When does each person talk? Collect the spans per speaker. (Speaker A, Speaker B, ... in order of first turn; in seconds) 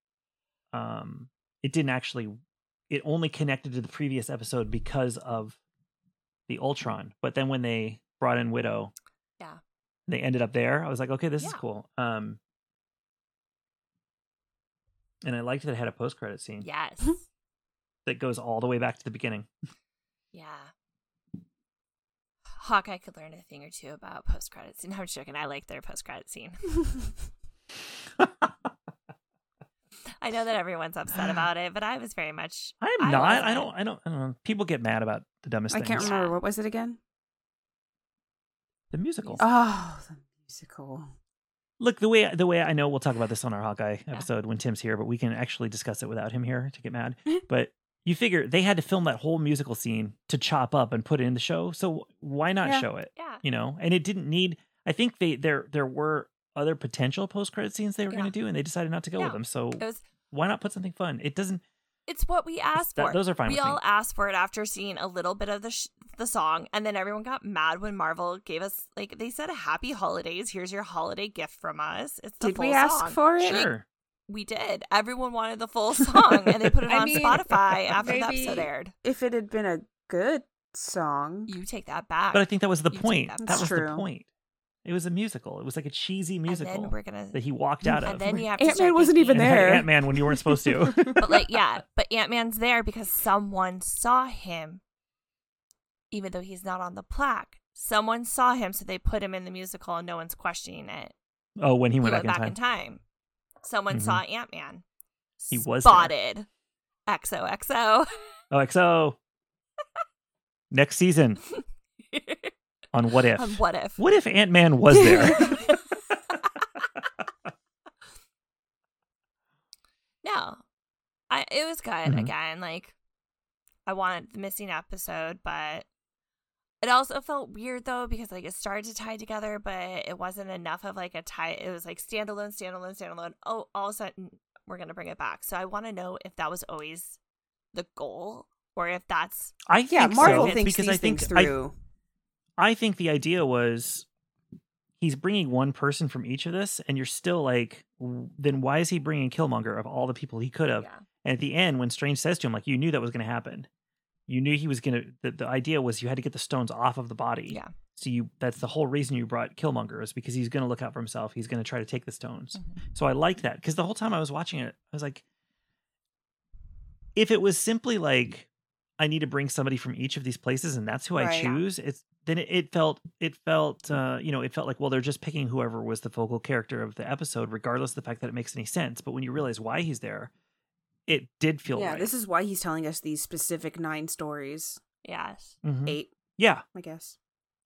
Speaker A: 0.7-2.4, 2.9-5.6, 6.5-8.9, 10.1-12.4, 15.2-16.7, 18.1-19.5, 32.8-36.1, 38.9-39.5, 41.8-61.6, 62.8-63.8, 73.4-73.8, 76.2-77.9, 82.3-84.3, 84.8-88.5, 89.3-91.4, 101.6-102.5, 103.9-104.2, 105.5-106.1, 108.5-109.2, 110.7-111.4, 112.9-115.7, 122.0-122.3, 139.7-141.6, 142.6-144.1, 145.0-153.7, 154.3-165.2, 167.2-168.5, 169.0-180.3, 181.1-182.1, 185.6-186.6
Speaker B: 16.6-17.2, 20.3-20.7, 22.6-26.7, 30.2-33.7, 36.0-36.4, 53.1-53.4, 59.2-60.0, 62.1-73.7, 74.3-78.9, 81.5-83.7, 86.5-87.4, 87.9-89.7, 91.2-94.8, 96.1-101.2, 102.0-103.0, 103.6-104.8, 105.4-106.5, 107.1-108.1, 112.1-112.5, 113.4-114.0, 115.3-115.8, 120.2-120.6, 121.3-123.0, 123.9-125.9, 126.8-137.2, 137.7-139.6, 140.1-140.6, 150.8-151.1, 185.0-185.6
Speaker C: 35.7-37.0, 39.4-41.1, 72.4-73.7, 76.9-77.4, 78.0-81.5, 83.4-84.1, 88.6-91.5, 139.9-141.7, 171.2-171.6, 181.7-184.8, 185.9-186.1, 186.7-187.2